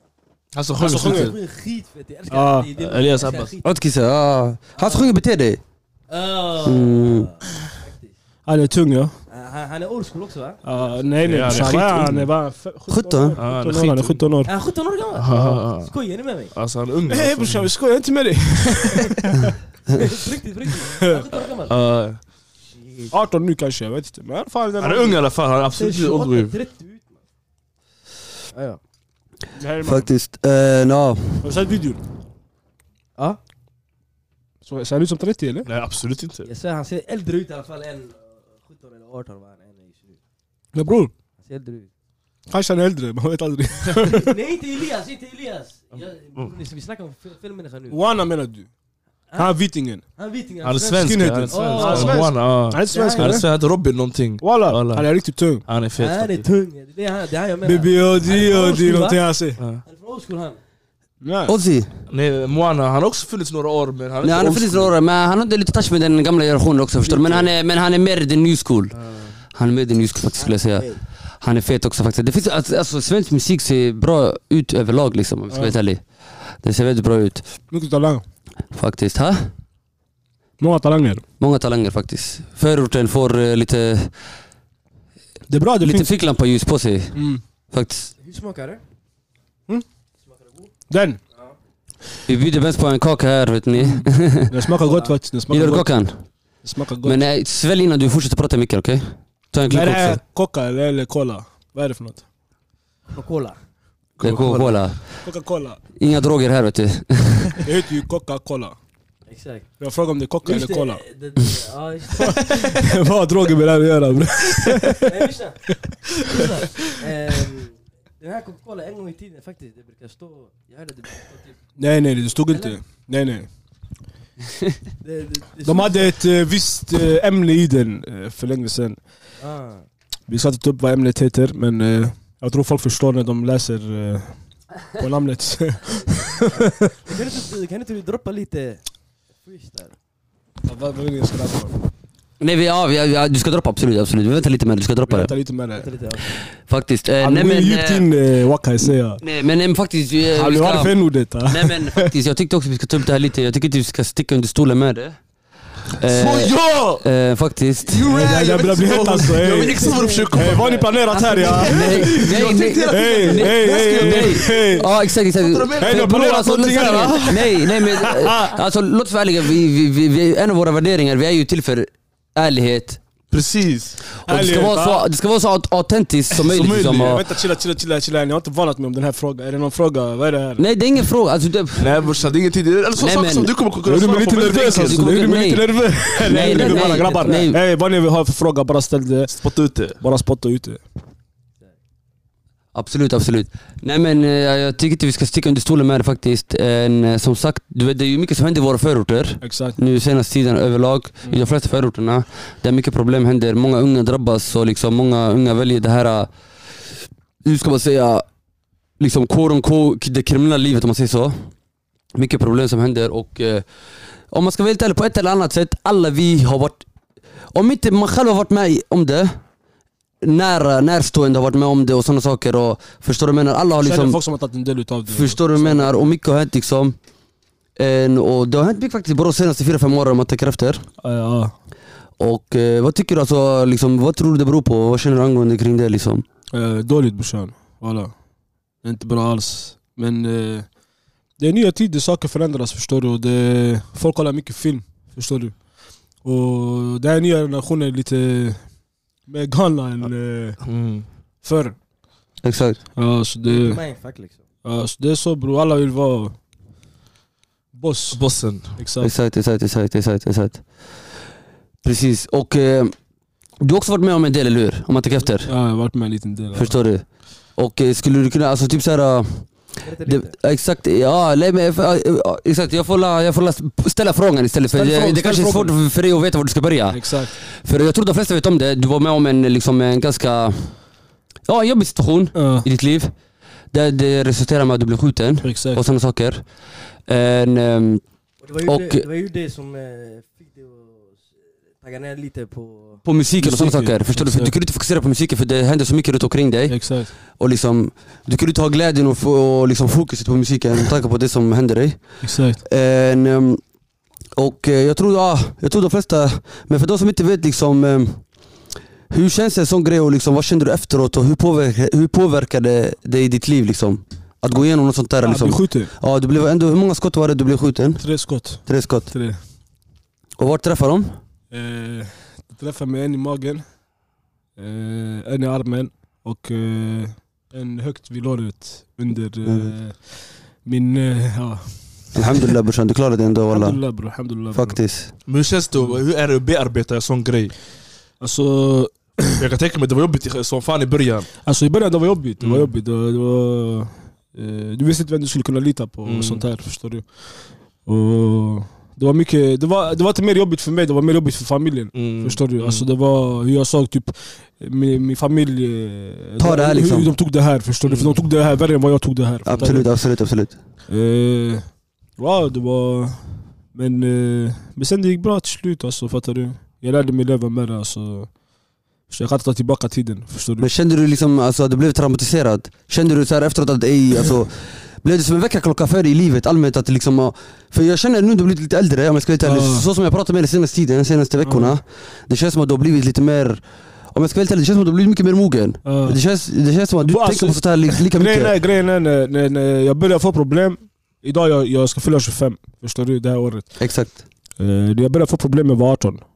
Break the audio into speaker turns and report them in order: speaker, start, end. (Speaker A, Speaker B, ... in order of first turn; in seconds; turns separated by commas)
Speaker A: 0.5-1.3, Speaker B: 0.8-1.3, Speaker C: 0.9-3.8, Speaker B: 2.3-2.7, Speaker A: 2.8-3.5, Speaker D: 3.6-5.6, Speaker C: 4.7-5.1, Speaker C: 6.1-8.1, Speaker D: 6.6-7.3, Speaker B: 8.4-9.1, Speaker C: 9.3-11.7, Speaker B: 10.6-14.5, Speaker A: 11.2-12.3, Speaker D: 12.9-13.4, Speaker A: 13.4-14.2, Speaker C: 14.4-16.5, Speaker A: 15.1-15.9, Speaker A: 16.5-17.7, Speaker B: 17.1-19.5, Speaker C: 19.9-21.7, Speaker B: 20.9-21.3, Speaker A: 21.7-22.2, Speaker B: 23.1-25.2, Speaker A: 24.8-26.5, Speaker C: 25.7-27.2, Speaker C: 28.5-28.8, Speaker B: 29.6-30.1, Speaker D: 29.8-31.4, Speaker B: 31.4-32.0, Speaker B: 34.6-35.7, Speaker A: 35.6-36.5, Speaker C: 36.4-40.2, Speaker B: 40.7-41.1, Speaker C: 41.4-41.9, Speaker B: 42.5-44.3, Speaker C: 44.0-48.0, Speaker B: 47.9-48.7, Speaker C: 49.3-49.6, Speaker B: 49.4-50.0, Speaker C: 50.1-52.3, Speaker A: 50.6-55.1, Speaker B: 50.9-53.5, Speaker C: 52.9-53.4, Speaker B: 54.4-55.6, Speaker A: 55.6-56.4, Speaker C: 56.0-59.2, Speaker B: 57.6-59.6, Speaker C: 59.8-60.6, Speaker B: 61.2-61.5, Speaker D: 61.5-61.9, Speaker A: 62.1-64.9, Speaker D: 64.2-68.9, Speaker A: 67.0-67.5, Speaker D: 69.5-70.9, Speaker C: 70.4-71.0, Speaker D: 71.4-77.4, Speaker B: 75.5-75.7, Speaker B: 77.7-78.2, Speaker D: 78.7-79.5, Speaker B: 80.6-81.2, Speaker D: 81.4-84.1, Speaker B: 85.5-86.1, Speaker D: 85.8-87.2, Speaker B: 87.1-87.4, Speaker D: 87.7-88.1, Speaker C: 88.2-88.8, Speaker C: 90.2-90.7, Speaker B: 90.9-91.2, Speaker D: 92.3-94.5, Speaker B: 93.8-95.9, Speaker D: 95.5-96.2, Speaker B: 96.6-97.2, Speaker D: 97.0-100.2, Speaker B: 99.7-102.2, Speaker C: 103.1-103.6, Speaker A: 104.2-104.8, Speaker D: 104.2-105.2, Speaker B: 105.2-105.8, Speaker D: 106.0-107.6, Speaker B: 107.6-108.8, Speaker C: 109.3-109.7, Speaker B: 109.8-111.0, Speaker C: 110.4-112.9, Speaker B: 112.2-115.1, Speaker C: 115.0-115.6, Speaker C: 116.2-121.6, Speaker B: 121.8-123.5, Speaker C: 122.5-122.8, Speaker C: 125.0-126.1, Speaker B: 125.6-129.0, Speaker C: 129.4-129.8, Speaker B: 130.3-134.3, Speaker B: 134.9-136.9, Speaker C: 136.6-138.8, Speaker C: 139.4-139.9, Speaker B: 140.6-141.8, Speaker D: 142.4-145.3, Speaker B: 145.1-145.9, Speaker C: 145.8-146.3, Speaker D: 146.6-148.1, Speaker B: 147.2-149.2, Speaker D: 148.8-155.2, Speaker B: 150.3-152.1, Speaker D: 156.0-158.2, Speaker A: 156.0-157.0, Speaker A: 157.9-167.4, Speaker B: 158.1-164.9, Speaker C: 159.6-161.7, Speaker D: 161.7-173.0, Speaker B: 165.8-168.6, Speaker A: 173.3-174.0, Speaker B: 174.2-175.0, Speaker D: 174.2-177.2, Speaker A: 176.4-177.2, Speaker B: 176.8-180.6, Speaker D: 180.6-181.9, Speaker A: 181.8-185.3, Speaker D: 182.9-183.5, Speaker B: 183.8-189.3, Speaker D: 184.5-187.6, Speaker A: 186.3-187.0, Speaker A: 189.3-190.0, Speaker B: 190.0-190.8, Speaker D: 192.7-206.3, Speaker B: 199.4-199.8, Speaker D: 207.4-208.2, Speaker D: 209.0-211.5, Speaker D: 212.1-213.6, Speaker D: 214.3-216.8, Speaker D: 217.5-219.4, Speaker D: 220.2-224.2, Speaker B: 223.8-226.1, Speaker D: 225.1-226.9, Speaker D: 227.8-230.8, Speaker B: 231.0-231.5, Speaker D: 232.2-236.2, Speaker B: 236.5-238.1, Speaker B: 238.8-240.7, Speaker B: 241.4-245.6, Speaker B: 246.2-248.6, Speaker B: 249.3-250.6, Speaker A: 250.6-251.1, Speaker B: 251.4-251.8, Speaker D: 252.4-252.8, Speaker B: 252.9-253.8, Speaker C: 253.5-254.4, Speaker B: 254.6-256.3, Speaker B: 257.7-258.2, Speaker A: 258.1-258.8, Speaker B: 258.8-259.1, Speaker D: 259.0-260.6, Speaker D: 261.8-262.9, Speaker D: 263.6-265.5, Speaker B: 265.4-266.7, Speaker D: 266.5-267.0, Speaker D: 267.6-269.5, Speaker C: 269.8-270.3, Speaker D: 270.0-280.7, Speaker B: 274.7-275.7, Speaker B: 276.9-277.3, Speaker D: 281.5-283.1, Speaker B: 282.3-282.7, Speaker D: 283.7-286.4, Speaker B: 285.4-285.8, Speaker D: 287.1-288.0, Speaker C: 288.4-291.3, Speaker D: 288.6-289.1, Speaker C: 291.8-293.0, Speaker D: 293.0-303.6, Speaker B: 293.4-294.5, Speaker B: 296.7-297.1, Speaker B: 302.2-302.6, Speaker D: 304.4-308.2, Speaker D: 309.1-318.0, Speaker B: 315.2-315.9, Speaker B: 318.0-319.4, Speaker D: 318.6-319.1, Speaker D: 320.4-321.1, Speaker B: 321.5-323.6, Speaker B: 324.6-332.5, Speaker D: 329.4-329.7, Speaker D: 332.1-333.8, Speaker B: 333.5-334.8, Speaker D: 334.5-335.1, Speaker A: 335.3-337.5, Speaker B: 338.2-339.4, Speaker A: 339.4-341.3, Speaker B: 341.4-347.1, Speaker A: 342.4-342.7, Speaker A: 346.0-346.4, Speaker B: 347.9-359.9, Speaker A: 351.9-352.9, Speaker D: 356.4-357.1, Speaker A: 357.9-358.2, Speaker D: 359.4-360.5, Speaker B: 360.9-368.3, Speaker B: 369.1-370.7, Speaker D: 370.6-383.6, Speaker B: 379.4-379.9, Speaker B: 381.4-381.8, Speaker D: 384.1-388.5, Speaker B: 385.8-386.2, Speaker B: 387.1-393.7, Speaker D: 393.8-394.2, Speaker B: 394.6-396.2